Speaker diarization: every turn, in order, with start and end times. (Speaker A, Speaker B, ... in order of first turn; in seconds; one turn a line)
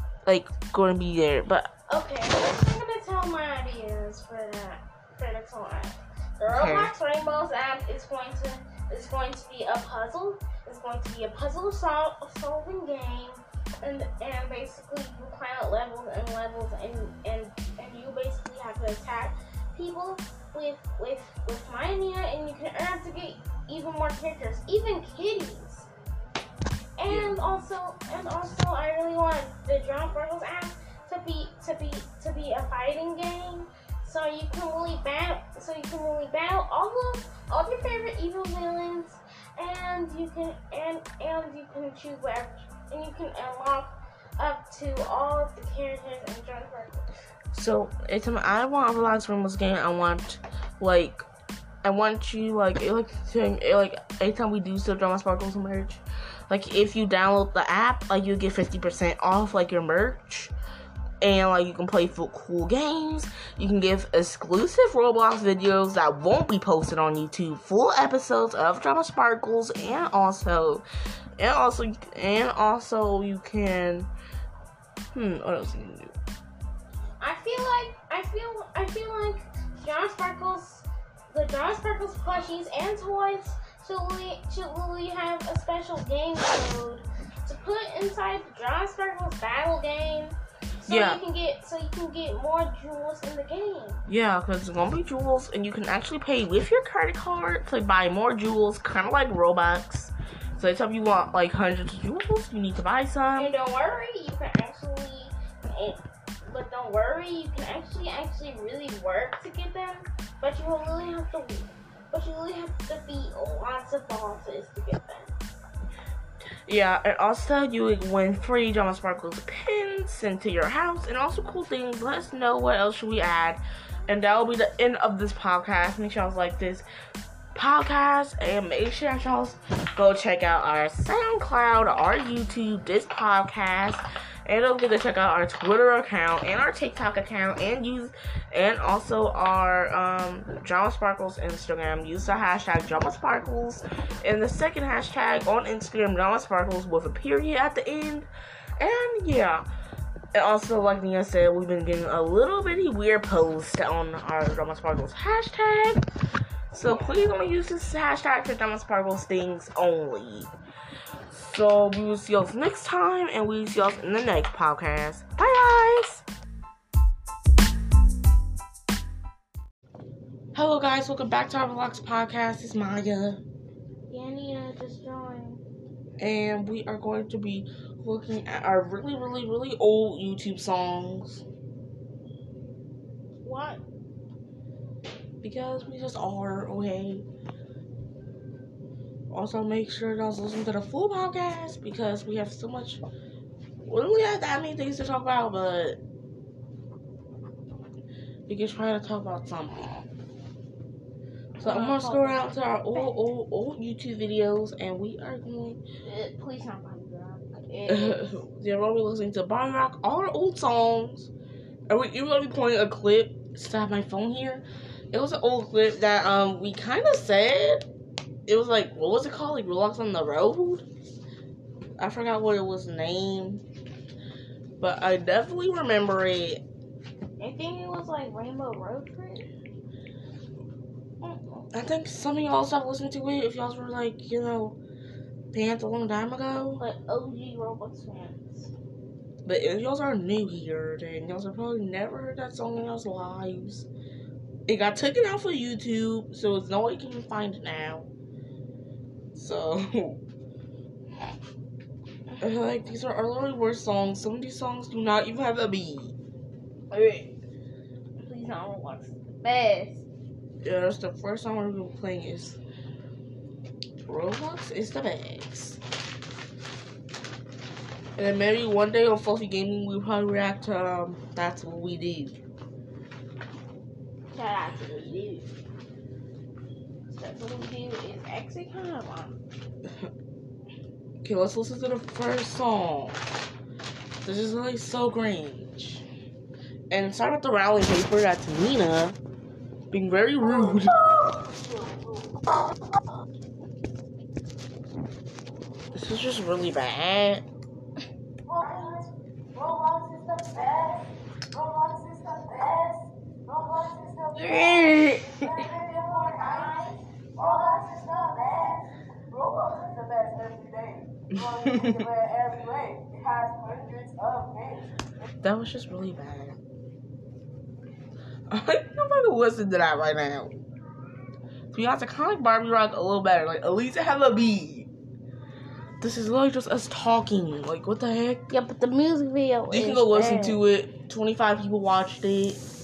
Speaker A: 0.2-1.7
Speaker B: 1.9-25.9
Speaker A: 6.5-6.9
Speaker B: 27.0-47.1
Speaker A: 27.1-27.4
Speaker A: 47.5-51.2
Speaker A: 51.8-60.5
Speaker A: 61.2-70.8
Speaker A: 71.4-74.1
Speaker A: 75.1-76.1
Speaker B: 77.2-94.0
Speaker A: 90.9-91.2
Speaker A: 94.1-103.5
Speaker B: 103.4-115.3
Speaker A: 116.7-126.8
Speaker A: 127.5-149.7
Speaker A: 150.3-156.1
Speaker A: 156.7-160.5
Speaker A: 161.3-166.2
Speaker A: 170.5-173.4
Speaker B: 174.1-175.6
Speaker A: 176.2-181.4
Speaker B: 183.4-183.8
Speaker A: 185.4-187.2
Speaker A: 189.3-193.0
Speaker A: 193.8-196.0
Speaker A: 198.5-200.1
Speaker A: 201.6-205.8
Speaker B: 201.6-203.1
Speaker B: 206.0-208.4
Speaker A: 207.9-211.3
Speaker A: 211.9-217.8
Speaker A: 218.5-220.9
Speaker A: 222.0-223.6
Speaker A: 224.8-226.6
Speaker B: 227.4-229.5
Speaker B: 231.2-231.7
Speaker A: 231.7-234.8
Speaker A: 235.5-236.8
Speaker B: 236.8-238.7
Speaker A: 239.4-243.9
Speaker A: 244.7-248.1
Speaker A: 249.3-250.2
Speaker A: 252.4-256.1
Speaker B: 256.9-257.2
Speaker B: 258.2-260.0
Speaker A: 260.6-262.6
Speaker A: 264.1-265.8
Speaker A: 268.2-272.4
Speaker B: 274.3-275.5
Speaker B: 277.1-279.4
Speaker A: 281.2-283.2
Speaker A: 284.2-286.0
Speaker A: 286.9-289.2
Speaker A: 289.9-290.9
Speaker C: 290.5-292.2
Speaker A: 295.9-297.4
Speaker C: 298.5-314.9
Speaker B: 304.3-305.5
Speaker B: 306.4-306.9
Speaker A: 311.4-312.1
Speaker A: 315.4-316.6
Speaker A: 318.5-320.6
Speaker A: 321.7-324.9
Speaker A: 326.0-328.5
Speaker B: 328.5-330.6
Speaker A: 329.7-332.6